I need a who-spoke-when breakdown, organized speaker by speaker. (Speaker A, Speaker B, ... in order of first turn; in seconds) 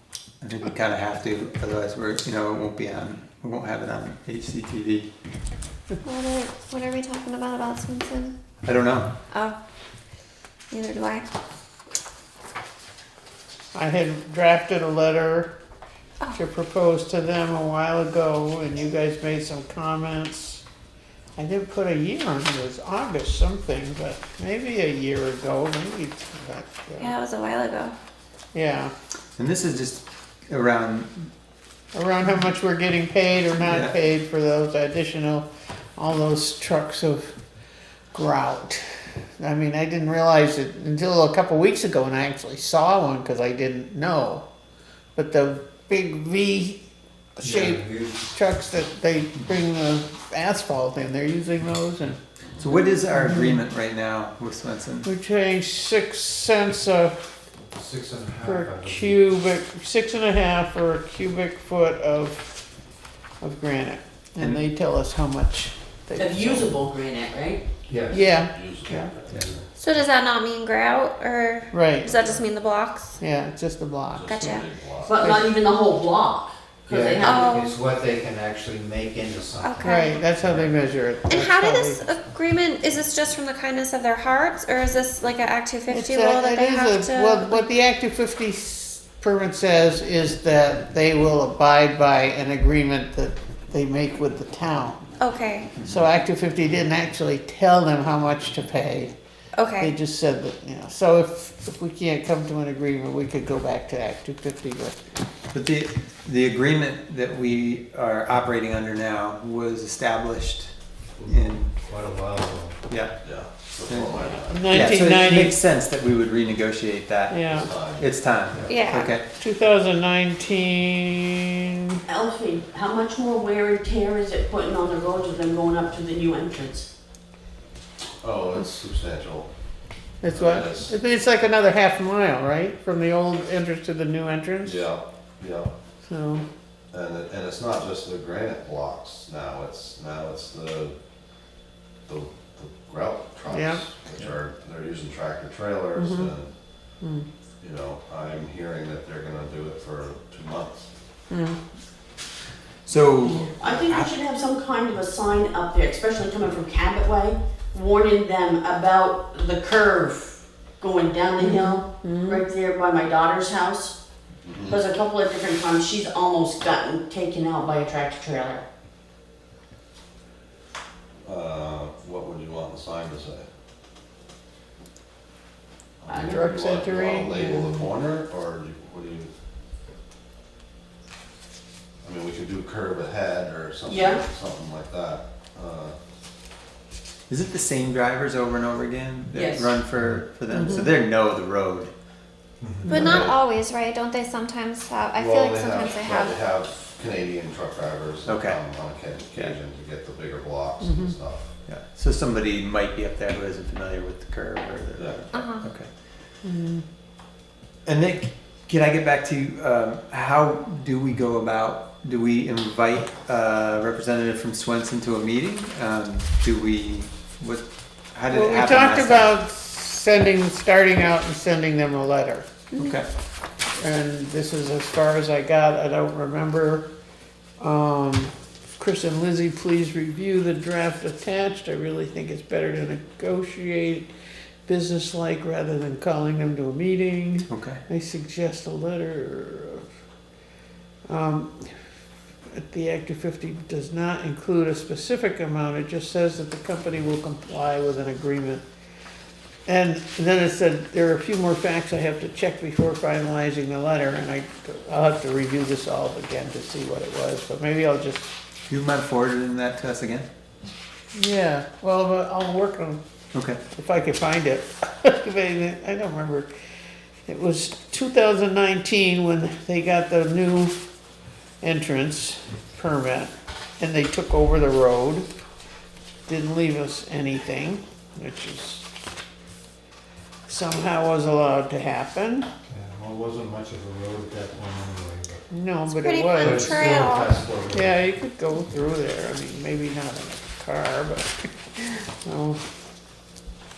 Speaker A: 0.4-5.1, 8.6-9.1, 29.4-31.3, 33.6-33.9, 52.6-55.1, 105.5-110.7, 111.3-111.7, 112.9-119.2, 152.9-154.1, 187.3-191.9, 198.3-198.6, 201.7-205.9, 207.9-219.3, 222.8-223.1, 237.5-237.8, 258.7-260.3, 263.3-263.6
Speaker B: 6.0-8.4, 9.3-9.6, 10.7-11.3, 27.0-28.0, 69.8-73.2, 74.2-74.6, 77.2-77.8, 79.6-80.3, 81.3-87.7, 95.2-95.8, 99.6-99.9, 118.7-119.1, 192.9-196.4, 205.3-205.7, 285.9-287.3
Speaker C: 13.7-15.5, 16.4-20.6, 21.4-27.1, 28.5-28.9, 31.9-35.5, 36.0-37.3, 38.1-38.8, 39.4-44.4, 45.2-46.8, 47.4-52.2, 53.1-53.6, 55.0-57.1, 58.4-62.5, 63.4-66.7, 68.1-69.1, 71.7-72.2, 73.2-74.3, 75.2-75.5, 79.8-82.0, 85.9-95.0, 95.8-99.1, 99.8-105.0, 114.5-115.6, 117.3-117.7, 119.2-122.0, 130.2-134.8, 136.1-136.4, 143.5-143.8, 145.9-146.3, 147.0-147.3, 151.3-151.6, 161.4-162.5, 176.2-177.9, 190.5-190.9, 200.8-201.2, 206.4-206.8, 218.3-222.4, 223.8-226.9, 227.6-234.1, 234.7-239.8, 241.1-241.8, 242.5-248.6, 249.7-258.3, 261.1-263.0, 263.7-266.5, 267.3-270.8, 271.6-275.3, 276.3-278.9, 280.5-282.5, 285.5-287.1, 287.7-292.6
Speaker D: 47.4-48.3, 57.7-59.2, 67.9-68.4, 76.9-80.7, 111.2-112.8, 192.6-193.0, 282.7-285.4, 286.4-288.0
Speaker E: 66.2-67.6, 75.1-77.5, 122.1-126.9, 153.5-164.0, 164.7-168.7, 183.9-184.2, 189.3-189.7
Speaker F: 68.5-69.7, 72.1-72.4, 74.2-75.2, 113.2-114.9, 117.5-118.1, 128.2-129.5, 130.3-130.9, 134.6-135.7, 136.9-141.0, 142.1-146.5, 147.6-150.9, 164.4-164.8, 171.2-173.5, 176.0-179.3, 182.0-185.9, 192.9-193.4, 195.2-201.5, 205.0-205.2